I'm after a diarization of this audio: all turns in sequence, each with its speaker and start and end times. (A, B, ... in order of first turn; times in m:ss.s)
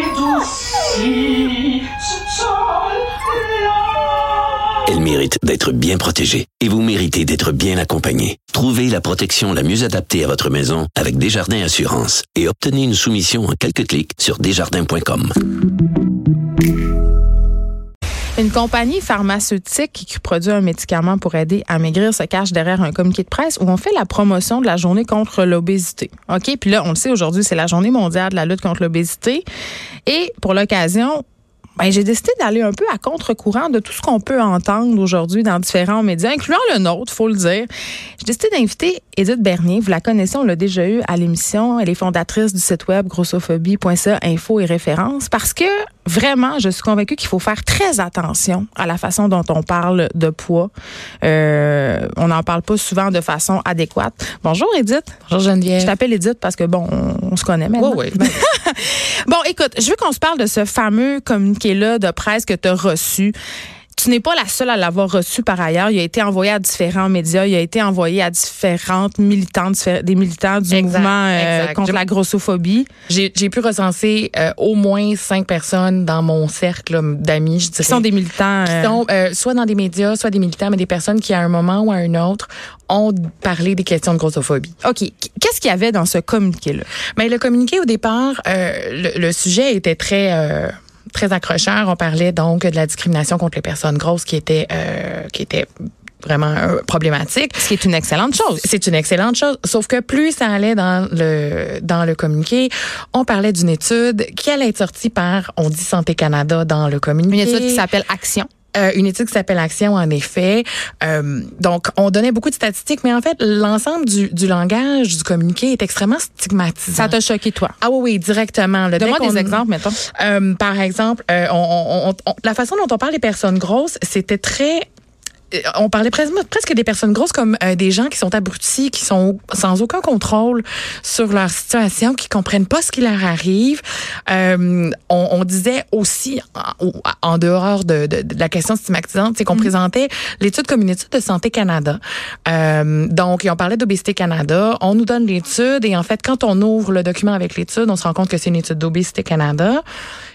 0:04.8-0:15.3 A
0:18.4-0:29.4 B
0:30.0-0:31.2 B
0:31.8-0:37.7 B
0:38.2-0:50.7 B
0:51.2-0:55.2 B
0:55.2-0:55.9 C
0:55.8-1:03.3 B
0:57.8-0:58.4 C
1:03.9-1:12.9 B
1:10.7-1:12.0 C
1:13.1-1:18.0 C
1:17.8-1:19.0 B
1:18.6-1:24.7 C
1:24.8-1:26.9 B
1:27.2-1:35.7 C
1:36.2-1:37.7 C
1:37.6-1:38.6 B
1:38.4-1:47.8 C
1:47.3-1:48.5 B
1:48.7-1:57.2 C
1:56.9-1:57.7 B
1:57.8-1:59.6 C
1:59.0-2:00.0 B
2:00.1-2:04.9 C
2:05.5-2:29.8 C